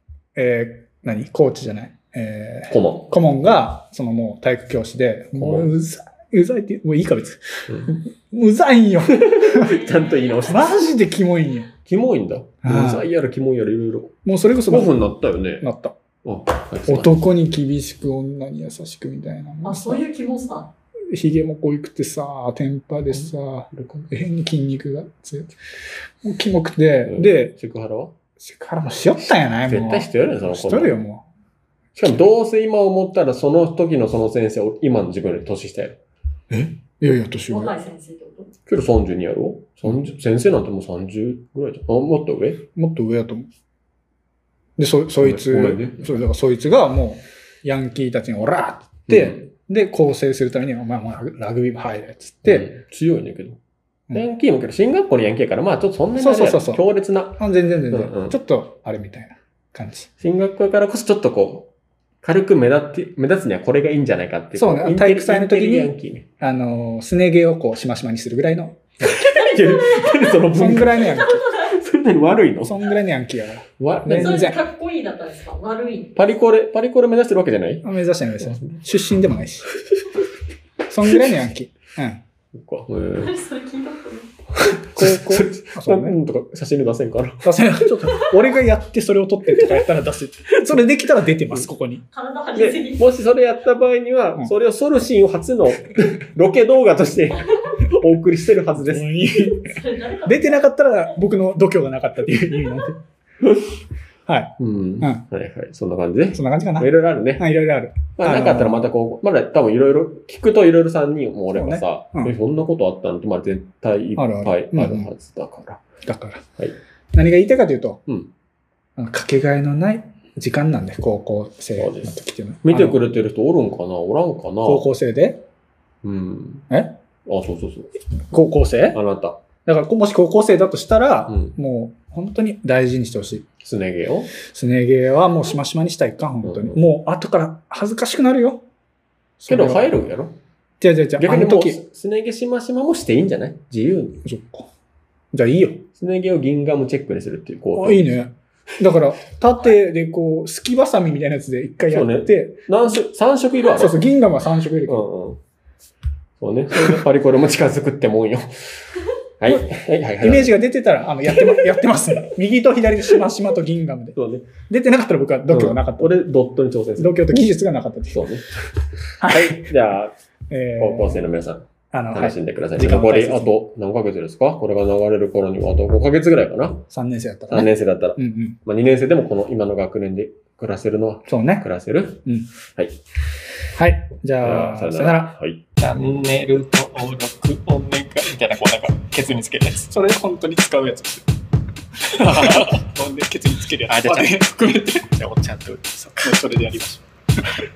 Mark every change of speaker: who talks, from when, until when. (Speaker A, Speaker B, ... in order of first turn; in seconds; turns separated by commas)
Speaker A: 0.3-9.8, Speaker B: 2.7-3.5, Speaker B: 5.3-5.7, Speaker B: 7.7-7.9, Speaker B: 9.1-10.7, Speaker C: 9.6-10.7, Speaker A: 10.5-11.7, Speaker B: 11.8-14.1, Speaker A: 12.6-13.1, Speaker A: 14.2-15.0, Speaker B: 14.7-15.7, Speaker A: 15.6-15.9, Speaker B: 16.2-17.1, Speaker A: 16.9-20.0, Speaker C: 19.6-20.7, Speaker A: 21.1-25.6, Speaker B: 23.1-24.1, Speaker A: 26.2-27.5, Speaker B: 27.1-28.1, Speaker A: 28.4-31.2, Speaker B: 29.6-31.0, Speaker B: 31.9-36.0, Speaker A: 36.5-37.8, Speaker C: 37.5-38.5, Speaker B: 38.6-42.6, Speaker A: 42.8-43.5, Speaker A: 44.8-52.7, Speaker B: 45.2-46.2, Speaker B: 49.1-49.5, Speaker B: 52.4-53.6, Speaker B: 54.1-58.4, Speaker A: 56.2-60.1, Speaker B: 60.2-61.7, Speaker B: 62.2-66.3, Speaker A: 64.5-69.0, Speaker B: 69.0-72.8, Speaker C: 69.2-70.3, Speaker A: 70.5-71.4, Speaker C: 71.0-71.7, Speaker A: 72.6-74.6, Speaker B: 73.8-74.5, Speaker C: 74.0-76.2, Speaker B: 76.2-77.9, Speaker A: 77.8-79.7, Speaker B: 78.4-78.8, Speaker A: 80.9-82.2, Speaker B: 82.5-83.3, Speaker C: 83.2-84.3, Speaker B: 84.5-87.5, Speaker A: 84.9-86.2, Speaker A: 87.4-92.0, Speaker C: 88.2-88.5, Speaker B: 90.7-91.7, Speaker C: 92.1-93.0, Speaker B: 92.5-99.1, Speaker A: 98.7-103.0, Speaker C: 99.5-101.1, Speaker A: 104.3-105.2, Speaker B: 104.6-107.4, Speaker A: 106.3-108.8, Speaker B: 108.2-115.8, Speaker A: 111.5-112.3, Speaker A: 114.2-115.1, Speaker A: 116.0-116.4, Speaker A: 117.1-118.0, Speaker A: 119.0-123.0, Speaker B: 121.8-124.8, Speaker A: 124.6-125.4, Speaker B: 126.0-126.7, Speaker A: 126.7-127.0, Speaker B: 127.2-127.9, Speaker A: 128.3-129.0, Speaker B: 128.9-129.4, Speaker A: 129.7-133.4, Speaker B: 131.3-131.6, Speaker B: 133.6-134.3, Speaker A: 134.4-138.6, Speaker B: 136.4-136.8, Speaker A: 139.4-139.9, Speaker B: 139.5-140.4, Speaker A: 140.8-141.8, Speaker B: 141.2-144.2, Speaker A: 144.2-144.7, Speaker A: 145.3-145.8, Speaker B: 145.9-148.1, Speaker A: 147.7-152.6, Speaker B: 151.9-154.0, Speaker A: 153.7-155.1, Speaker B: 154.8-155.4, Speaker B: 156.4-158.8, Speaker B: 159.4-160.5, Speaker A: 160.2-164.2, Speaker B: 164.1-164.5, Speaker A: 164.7-166.2, Speaker B: 165.5-167.5, Speaker A: 167.0-168.3, Speaker B: 168.1-168.5, Speaker A: 169.2-169.7, Speaker B: 169.2-170.1, Speaker A: 170.5-171.3, Speaker B: 170.8-176.8, Speaker A: 171.9-173.6, Speaker A: 176.9-178.6, Speaker B: 177.5-182.2, Speaker A: 181.3-181.7, Speaker A: 183.8-185.4, Speaker B: 184.4-189.9, Speaker A: 189.9-191.2, Speaker B: 192.1-192.8, Speaker A: 192.2-195.1, Speaker B: 193.9-194.5, Speaker B: 195.1-196.4, Speaker A: 196.2-197.0